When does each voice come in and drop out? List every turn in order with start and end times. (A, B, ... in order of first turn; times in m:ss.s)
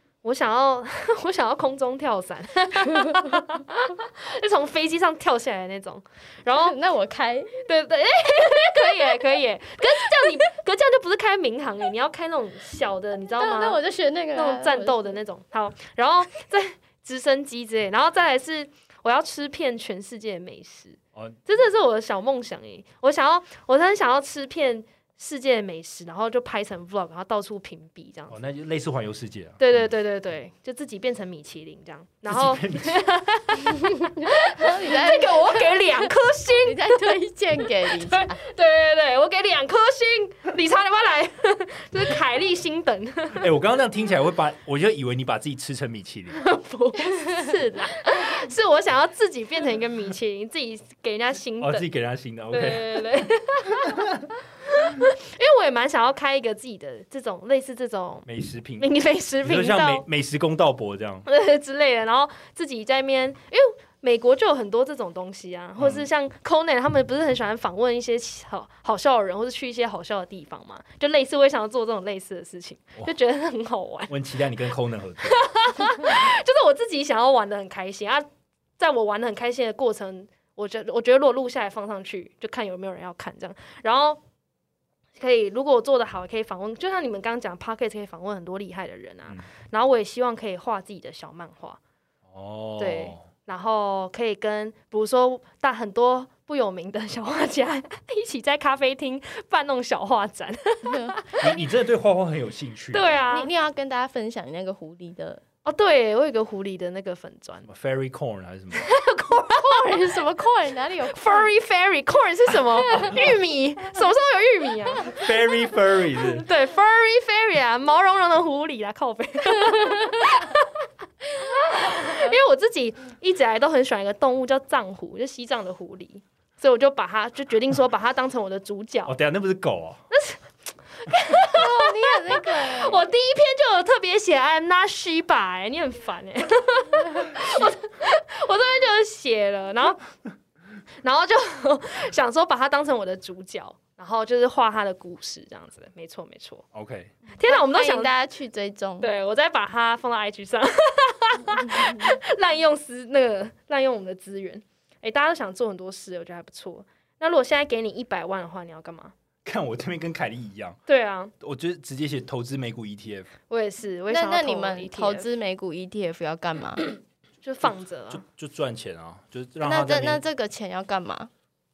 0:00.2-0:06.8 A
0:06.5-0:07.7 B
0:07.6-0:13.8 A
0:13.4-0:15.2 B
0:14.3-0:28.4 A
0:28.3-0:29.8 C
0:29.6-0:37.2 A
0:32.3-0:33.1 C
0:33.8-0:38.4 B
0:37.7-0:43.5 A
0:43.4-0:46.4 C
0:46.4-0:51.8 A
0:51.6-0:53.1 C
0:52.5-0:54.1 A
0:54.7-0:58.3 A
0:58.3-0:58.9 C
0:58.8-1:00.0 A
0:59.4-1:01.3 C
1:01.3-1:14.2 A
1:05.8-1:06.1 C
1:14.1-1:15.4 C
1:15.2-1:18.3 A
1:18.8-1:24.2 A
1:25.2-1:31.8 A
1:32.3-1:33.2 C
1:32.8-1:41.6 A
1:40.8-1:41.2 B
1:41.4-1:43.2 C
1:42.9-1:43.5 A
1:43.3-1:45.4 B
1:45.6-1:47.7 A
1:47.7-1:48.9 C
1:48.7-1:50.1 A
1:49.5-1:51.5 B
1:51.1-1:55.3 A
1:55.1-1:56.5 C
1:56.4-2:00.7 A
1:59.6-2:00.4 B
2:01.3-2:09.1 A
2:01.7-2:02.3 B
2:09.1-2:10.0 C
2:10.1-2:10.4 A
2:11.0-2:20.0 A
2:11.4-2:13.0 B
2:21.0-2:26.6 A
2:26.7-2:27.1 C
2:27.4-2:28.1 A
2:27.4-2:29.1 B
2:29.0-2:39.1 A
2:31.5-2:32.2 B
2:39.4-2:40.8 C
2:40.9-2:41.3 A
2:41.4-2:43.3 C
2:43.5-2:45.3 A
2:44.1-2:46.8 B
2:47.4-2:48.2 A
2:48.1-2:50.2 C
2:49.6-2:51.3 B